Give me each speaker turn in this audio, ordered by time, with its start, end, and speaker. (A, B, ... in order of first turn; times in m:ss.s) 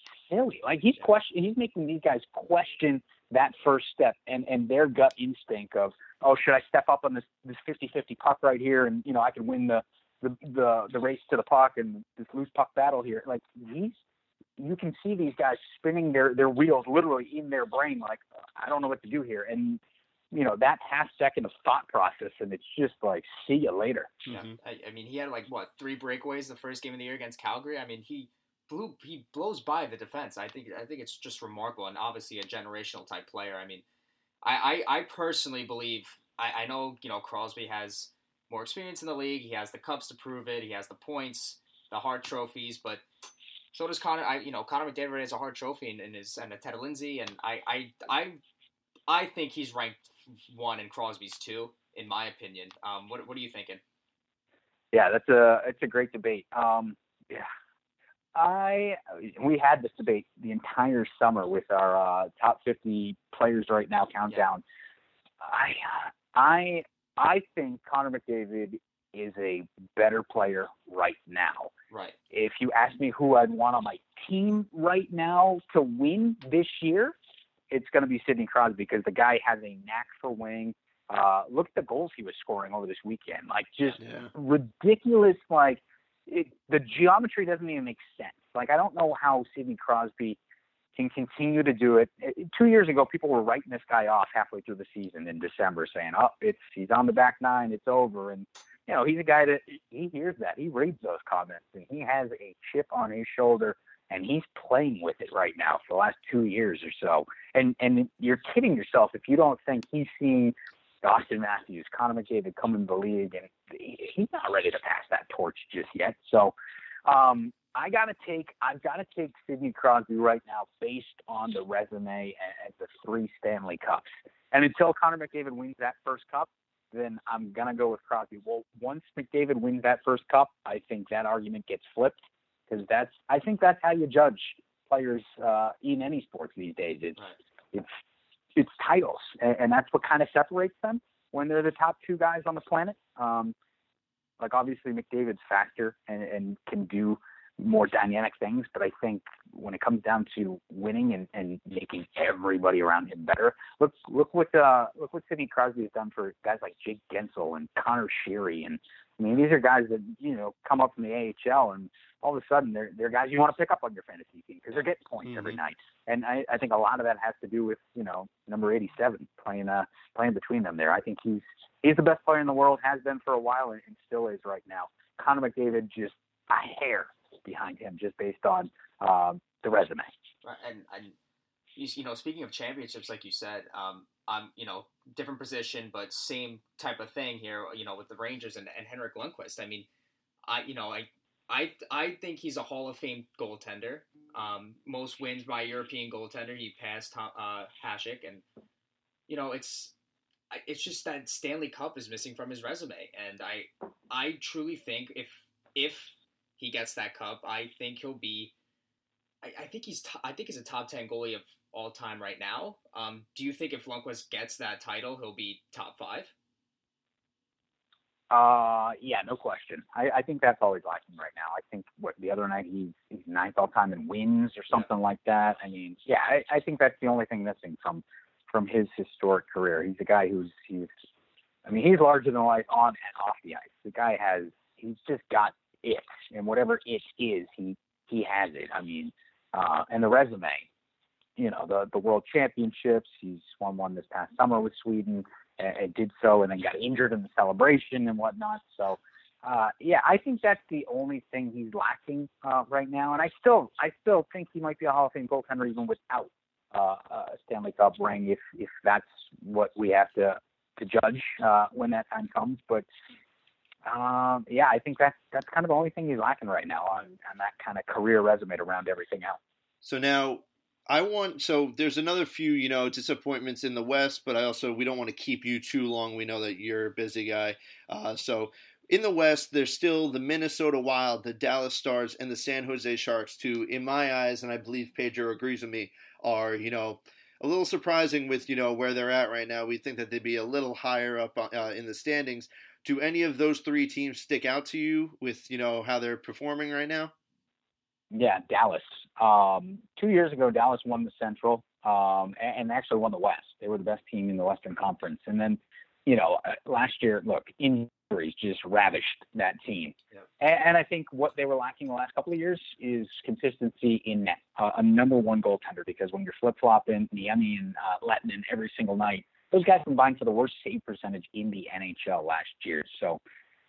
0:00.2-0:14.0 A
0:14.6-0:19.8 A
0:20.3-0:24.1 A
0:24.3-0:24.6 B
0:24.3-0:33.8 C
0:34.4-0:43.0 C
0:43.7-0:48.4 C
0:49.1-0:53.8 C
0:54.9-0:57.5 A
0:58.4-1:04.6 A
1:05.4-1:11.7 A
1:11.9-1:12.2 C
1:12.3-1:17.1 A
1:17.7-1:30.4 A
1:24.0-1:24.3 B
1:31.0-1:56.5 A
1:57.0-2:12.2 A
2:12.7-2:17.2 A
2:18.5-2:23.5 A
2:24.4-3:00.1 A
2:45.2-2:45.6 B
3:00.4-3:01.1 C
3:01.8-3:09.8 C
3:10.4-3:18.4 C
3:19.3-3:19.9 C
3:20.5-3:28.5 C
3:29.4-3:36.3 C
3:38.3-3:50.9 A
3:51.6-4:00.6 A
4:01.4-4:22.8 A
4:23.8-4:29.4 A
4:29.8-4:57.1 B
4:58.1-5:23.2 A